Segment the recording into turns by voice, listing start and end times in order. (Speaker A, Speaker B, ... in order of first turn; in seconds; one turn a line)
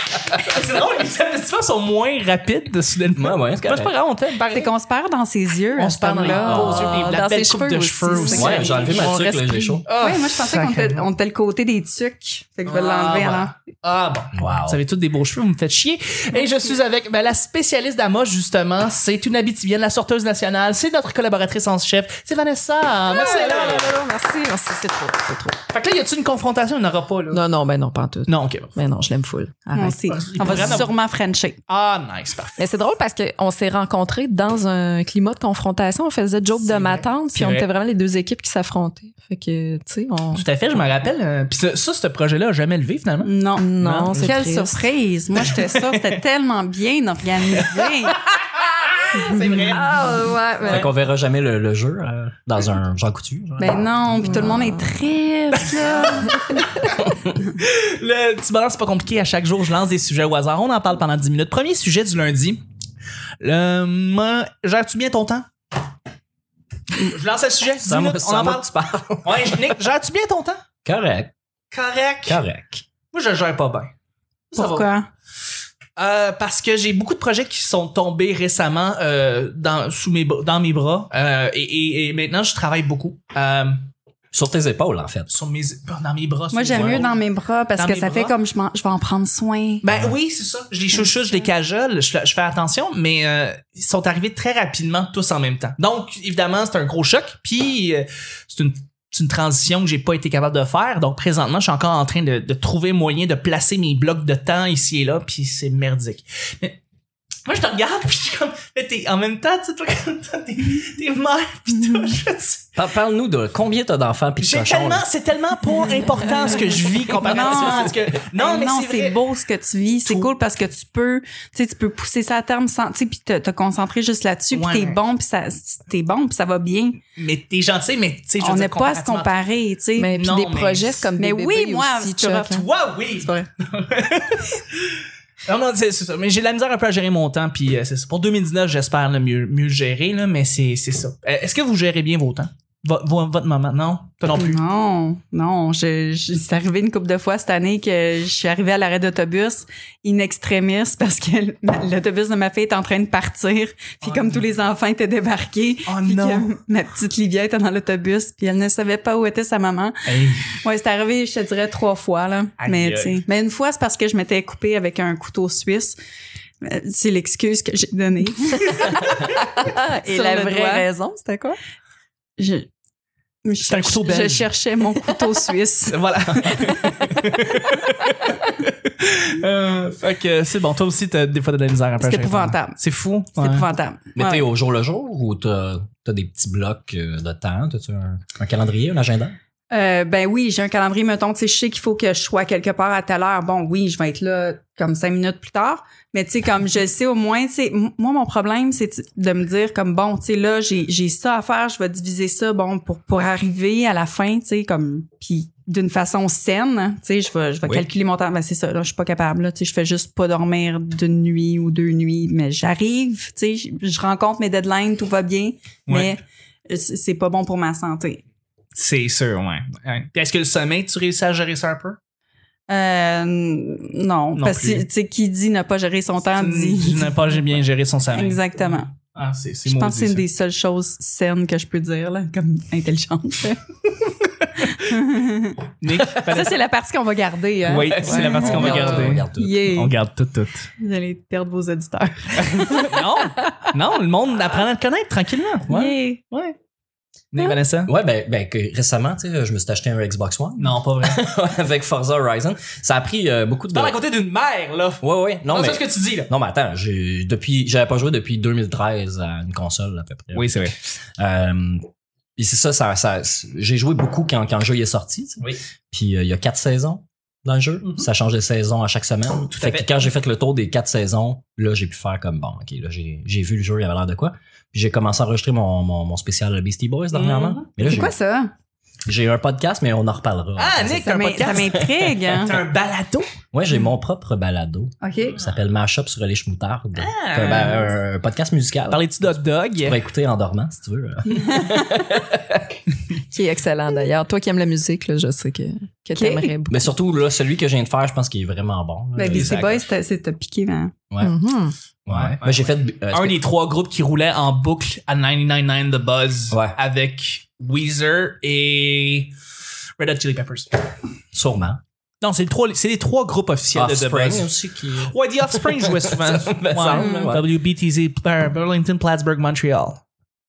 Speaker A: 0.3-4.7
Speaker B: 3.1-3.9
Speaker C: 4.5-7.0
Speaker A: 5.8-9.2
Speaker D: 6.2-9.8
Speaker B: 6.3-6.9
Speaker C: 8.1-9.1
Speaker B: 8.3-9.9
Speaker A: 9.8-11.1
Speaker C: 9.9-13.5
Speaker A: 12.7-24.0
Speaker B: 14.3-14.8
Speaker D: 23.1-25.6
Speaker A: 25.7-27.4
Speaker D: 27.3-30.0
Speaker A: 28.3-28.7
Speaker C: 29.7-31.6
Speaker A: 30.1-30.9
Speaker A: 31.7-32.6
Speaker D: 32.6-40.5
Speaker A: 36.6-37.7
Speaker A: 40.3-44.2
Speaker C: 43.2-48.2
Speaker D: 43.6-44.9
Speaker A: 45.4-46.0
Speaker A: 49.0-50.9
Speaker D: 49.7-50.9
Speaker B: 50.6-54.3
Speaker C: 53.6-56.5
Speaker D: 54.2-55.0
Speaker A: 55.6-56.9
Speaker A: 57.5-62.6
Speaker A: 63.4-65.5
Speaker A: 66.9-68.7
Speaker B: 67.8-69.7
Speaker A: 69.2-70.6
Speaker B: 70.8-71.3
Speaker A: 71.7-72.4
Speaker B: 72.3-72.8
Speaker A: 73.1-73.9
Speaker A: 74.5-74.9
Speaker C: 74.5-75.1
Speaker A: 76.0-83.9
Speaker B: 84.3-85.3
Speaker A: 85.3-87.2
Speaker C: 86.5-89.8
Speaker B: 86.7-87.0
Speaker A: 87.8-88.3
Speaker A: 89.8-106.8
Speaker A: 107.5-112.7
Speaker B: 112.8-115.0
Speaker A: 114.4-119.2
Speaker C: 117.2-127.0
Speaker B: 117.5-117.9
Speaker A: 120.1-120.3
Speaker A: 124.5-125.0
Speaker A: 127.2-129.3
Speaker C: 128.4-130.1
Speaker D: 130.0-132.6
Speaker A: 130.1-131.0
Speaker C: 131.2-132.6
Speaker A: 132.5-144.6
Speaker C: 133.2-133.5
Speaker C: 144.3-160.0
Speaker A: 154.0-154.4
Speaker A: 155.9-156.5
Speaker A: 160.1-160.5
Speaker C: 160.6-166.0
Speaker A: 162.6-163.2
Speaker C: 166.6-169.0
Speaker D: 169.4-171.6
Speaker C: 170.0-170.9
Speaker C: 172.4-172.7
Speaker C: 173.4-176.7
Speaker A: 173.7-174.5
Speaker A: 175.9-183.7
Speaker C: 182.0-182.8
Speaker C: 183.4-184.5
Speaker B: 184.2-189.4
Speaker C: 189.7-218.2
Speaker A: 218.8-222.0
Speaker C: 222.7-227.4
Speaker A: 224.3-224.9
Speaker A: 226.2-230.2
Speaker C: 228.1-228.9
Speaker C: 229.7-233.6
Speaker C: 234.7-235.6
Speaker A: 235.8-236.5
Speaker C: 236.2-239.9
Speaker A: 237.7-240.7
Speaker D: 238.1-239.1
Speaker B: 238.3-239.7
Speaker C: 240.8-243.4
Speaker A: 242.5-245.7
Speaker B: 245.7-246.0
Speaker C: 245.7-246.2
Speaker A: 246.3-246.6
Speaker A: 247.3-247.9
Speaker B: 247.8-254.0
Speaker A: 250.6-251.2
Speaker A: 253.7-256.3
Speaker B: 255.0-261.9
Speaker A: 260.3-260.8
Speaker B: 262.4-278.1
Speaker A: 267.8-268.1
Speaker A: 269.5-270.0
Speaker A: 277.1-277.7
Speaker C: 277.8-278.5
Speaker B: 279.1-282.3
Speaker A: 280.6-281.8
Speaker C: 281.1-282.6
Speaker A: 282.3-283.3
Speaker B: 283.5-292.4
Speaker C: 285.0-285.4
Speaker A: 287.0-287.9
Speaker A: 288.9-290.0
Speaker C: 291.4-291.8
Speaker D: 293.3-296.9
Speaker C: 296.2-296.5
Speaker B: 296.7-299.9
Speaker C: 299.2-300.9
Speaker D: 301.2-301.8
Speaker B: 302.1-303.4
Speaker A: 302.1-309.3
Speaker B: 306.5-306.8
Speaker A: 310.0-310.8
Speaker B: 311.3-311.8
Speaker A: 312.2-320.0
Speaker B: 313.8-317.5
Speaker C: 316.9-317.3